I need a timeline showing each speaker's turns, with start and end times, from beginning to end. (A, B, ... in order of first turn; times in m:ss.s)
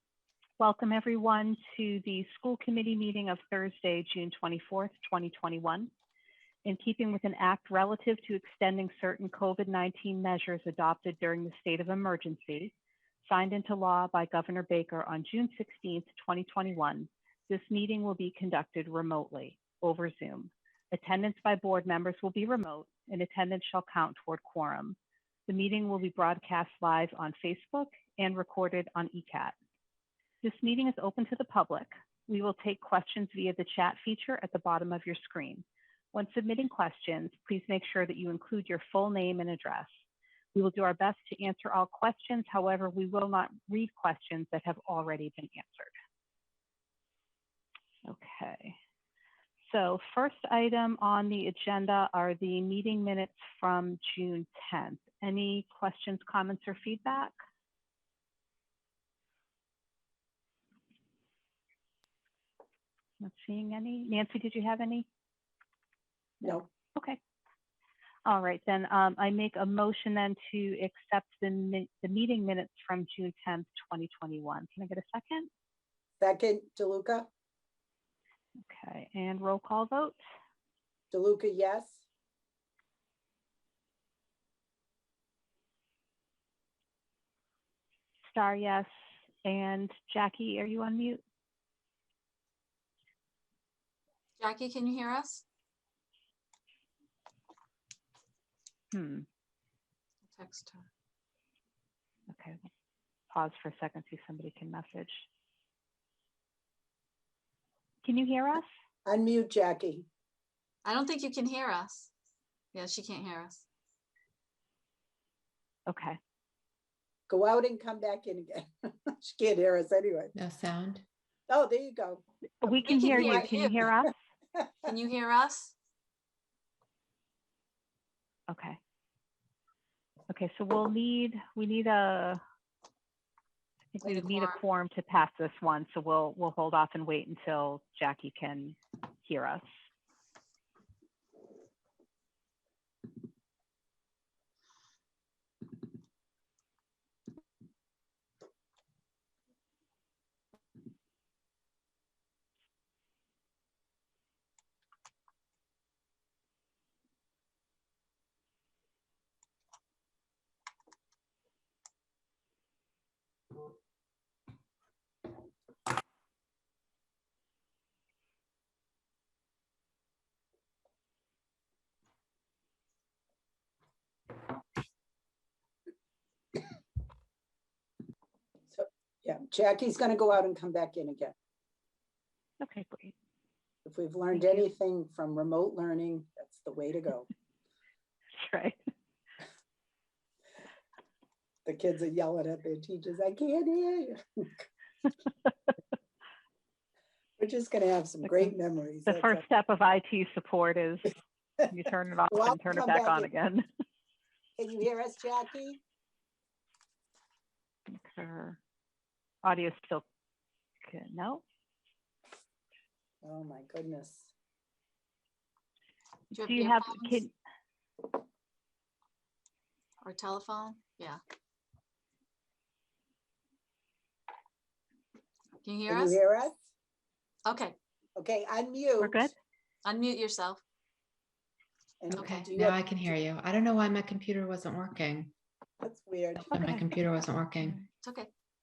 0:00.6-0:05.9 A
0:06.6-0:12.7 A
0:13.3-0:29.6 A
0:30.4-0:39.9 A
0:40.5-0:45.9 A
0:48.0-0:48.8 A
0:49.6-0:57.3 A
1:03.2-1:05.1 A
1:06.4-1:07.2 A
1:08.3-1:15.5 A
1:16.2-1:17.3 B
1:18.6-1:20.2 A
1:21.1-1:22.0 B
1:28.3-1:28.9 A
1:29.4-1:31.2 A
1:34.4-1:35.4 C
1:38.9-1:39.3 A
1:40.3-1:40.9 C
1:42.3-1:42.7 A
1:43.3-1:45.3 A
1:48.0-1:48.6 A
1:49.0-1:50.1 B
1:50.8-1:52.1 C
1:52.7-1:53.7 C
1:55.9-1:56.2 A
1:57.3-2:00.3 B
2:00.4-2:01.1 D
2:01.5-2:02.2 B
2:02.6-2:04.2 A
2:02.6-2:03.8 C
2:03.1-2:03.5 B
2:04.6-2:04.9 B
2:04.8-2:05.8 C
2:08.5-2:08.8 A
2:10.3-2:12.4 A
2:13.9-2:19.6 A
2:14.0-2:14.6 C
2:58.7-3:01.3 B
3:02.6-3:03.2 A
3:03.8-3:07.3 B
3:04.3-3:04.6 A
3:08.4-3:08.8 A
3:11.7-3:14.6 B
3:17.4-3:19.4 B
3:18.2-3:18.5 A
3:19.1-3:23.7 A
3:22.3-3:23.3 B
3:24.6-3:25.8 B
3:27.9-3:28.6 A
3:29.4-3:30.0 A
3:30.8-3:31.4 A
3:33.2-3:34.3 B
3:36.3-3:37.2 C
3:36.4-3:37.3 A
3:40.0-3:41.2 C
3:45.6-3:46.2 C
3:45.9-3:46.6 B
3:47.4-3:47.8 C
3:48.2-3:49.3 B
3:49.0-3:49.3 A
3:49.8-3:50.6 C
3:52.0-3:52.8 B
3:52.1-3:55.3 D
3:55.8-3:56.6 B
3:56.4-3:57.8 D
3:56.5-3:56.8 A
3:58.0-3:58.3 C